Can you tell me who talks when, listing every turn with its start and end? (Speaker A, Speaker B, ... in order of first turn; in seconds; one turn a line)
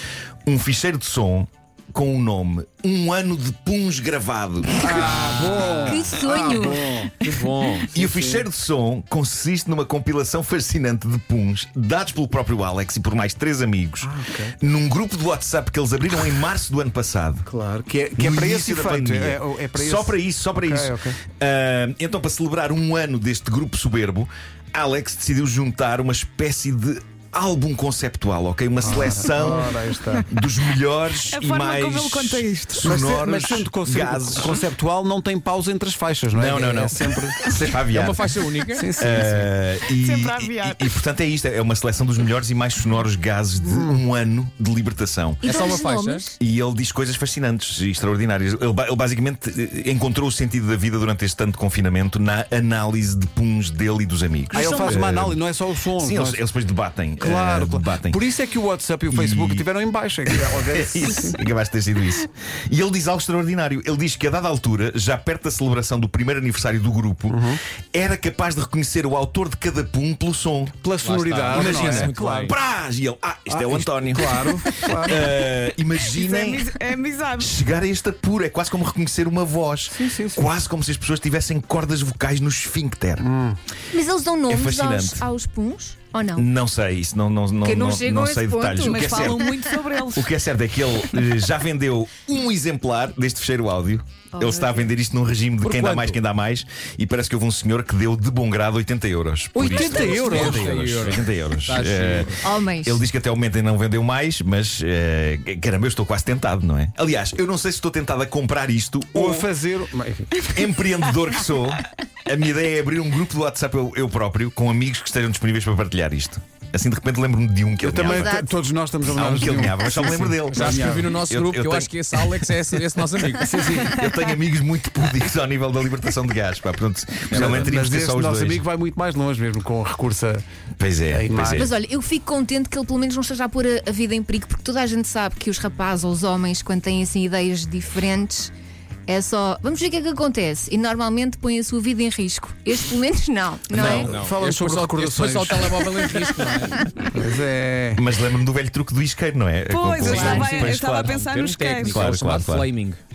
Speaker A: 0.5-5.3
Speaker B: 4.8-7.1
Speaker C: 5.8-7.4
Speaker D: 7.2-8.2
Speaker A: 7.9-17.4
Speaker B: 14.0-14.6
Speaker B: 17.4-21.2
Speaker A: 18.1-34.6
Speaker B: 28.8-30.3
Speaker E: 31.3-33.0
Speaker B: 32.8-37.6
Speaker A: 36.3-38.3
Speaker D: 37.9-38.9
Speaker B: 38.7-39.5
Speaker A: 39.0-45.5
Speaker E: 40.0-40.9
Speaker C: 45.4-46.4
Speaker D: 45.4-46.3
Speaker A: 46.4-55.4
Speaker B: 54.5-56.4
Speaker A: 56.0-58.2
Speaker B: 57.2-61.4
Speaker A: 59.1-59.6
Speaker A: 60.3-70.8
Speaker B: 67.3-67.6
Speaker B: 70.8-72.5
Speaker D: 71.0-72.5
Speaker A: 71.5-76.7
Speaker B: 73.5-75.3
Speaker E: 76.0-77.6
Speaker A: 77.4-83.3
Speaker B: 79.9-80.5
Speaker B: 83.2-83.6
Speaker C: 83.9-86.5
Speaker A: 84.5-85.3
Speaker A: 86.3-89.5
Speaker C: 87.6-89.6
Speaker E: 88.8-90.3
Speaker A: 90.1-109.5
Speaker E: 90.9-91.2
Speaker C: 94.3-94.9
Speaker D: 95.6-96.2
Speaker B: 99.5-100.9
Speaker D: 99.8-102.4
Speaker C: 102.4-103.0
Speaker B: 109.1-110.5
Speaker A: 110.4-118.4
Speaker B: 117.8-121.2
Speaker C: 118.0-118.5
Speaker A: 119.0-122.5
Speaker D: 120.5-123.6
Speaker B: 123.3-124.0
Speaker A: 123.8-128.6
Speaker D: 127.3-127.7
Speaker B: 127.3-130.4
Speaker A: 130.8-131.7
Speaker B: 131.1-131.7
Speaker C: 131.5-138.5
Speaker C: 139.1-144.1
Speaker B: 143.7-145.9
Speaker D: 143.7-146.9
Speaker B: 147.1-148.0
Speaker A: 147.9-151.1
Speaker E: 149.7-152.1
Speaker C: 150.0-150.5
Speaker D: 150.1-153.0
Speaker A: 151.8-152.7